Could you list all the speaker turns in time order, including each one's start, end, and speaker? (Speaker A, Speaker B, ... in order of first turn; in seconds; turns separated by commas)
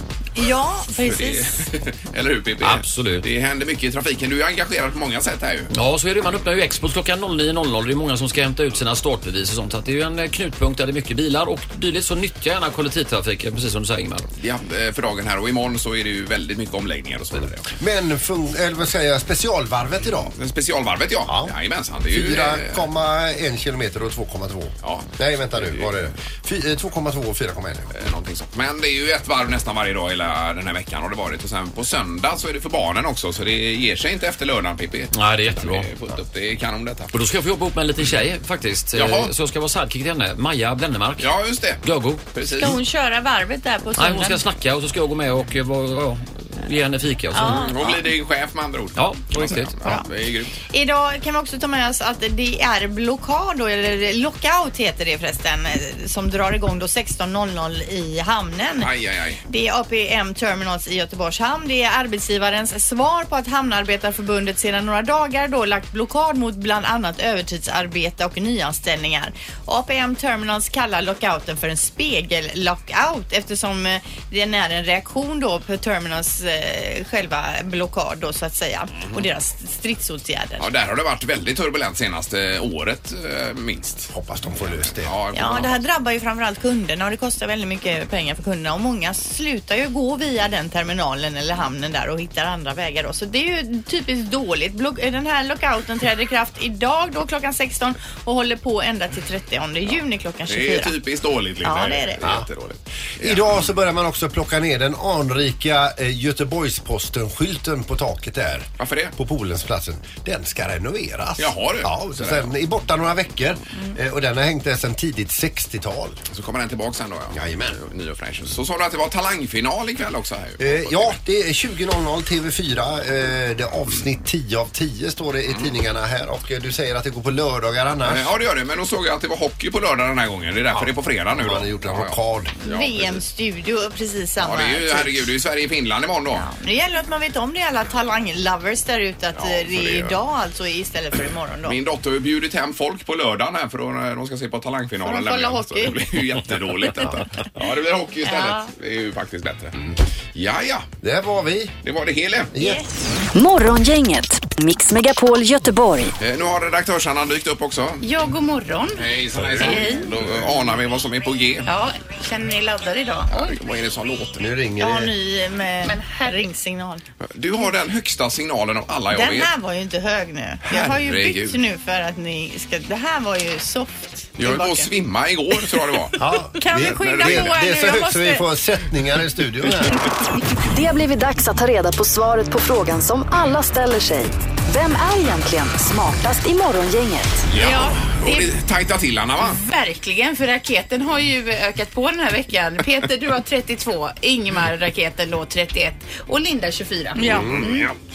Speaker A: 0.3-1.6, Speaker B: 1.0-5.7, Speaker C: 2.6-3.2, Speaker C: 5.7-14.3, Speaker B: 14.4-17.7, Speaker D: 17.8-20.3, Speaker B: 20.3-22.9, Speaker D: 21.3-21.5, Speaker D: 22.1-27.9, Speaker B: 24.8-25.9, Speaker B: 27.9-37.1, Speaker C: 35.1-35.9, Speaker C: 37.1-41.3, Speaker B: 38.9-39.3, Speaker B: 41.2-42.8, Speaker C: 41.8-42.2, Speaker A: 42.4-44.4, Speaker C: 44.0-48.0, Speaker A: 47.3-47.7, Speaker B: 47.4-50.6, Speaker C: 49.0-50.0, Speaker A: 50.7-58.9, Speaker B: 58.8-59.4, Speaker A: 59.5-80.7, Speaker B: 80.6-85.8, Speaker D: 84.1-85.1, Speaker A: 85.3-100.9, Speaker B: 100.4-103.7, Speaker A: 101.6-102.2, Speaker D: 102.2-102.5, Speaker D: 103.2-116.2, Speaker B: 108.8-109.2, Speaker B: 111.4-112.5, Speaker B: 116.3-121.2, Speaker D: 117.3-117.8, Speaker D: 120.6-128.3, Speaker B: 125.5-125.7, Speaker B: 128.0-133.2, Speaker D: 130.7-132.5, Speaker A: 132.6-135.3, Speaker B: 134.4-136.5, Speaker A: 136.3-141.8, Speaker B: 139.3-140.2, Speaker B: 141.6-149.8, Speaker A: 145.0-146.0, Speaker A: 148.2-148.7, Speaker B: 150.3-150.9, Speaker D: 151.0-151.7, Speaker B: 151.8-152.5, Speaker D: 152.5-152.8, Speaker A: 152.6-152.8, Speaker E: 153.3-156.1, Speaker B: 156.2-158.0, Speaker F: 158.0-159.0, Speaker B: 158.9-161.7, Speaker F: 159.7-160.0, Speaker F: 161.6-163.5, Speaker B: 163.3-164.4, Speaker D: 164.4-165.1, Speaker A: 164.8-167.0, Speaker F: 165.8-166.5, Speaker B: 167.3-169.5, Speaker A: 169.1-174.9, Speaker B: 170.6-171.6, Speaker B: 174.4-176.2, Speaker D: 176.2-180.0, Speaker A: 176.5-178.4, Speaker B: 176.8-177.6, Speaker E: 180.6-187.5, Speaker B: 187.5-189.6, Speaker A: 187.6-188.5, Speaker F: 189.5-197.7, Speaker A: 197.2-197.8, Speaker D: 197.2-197.7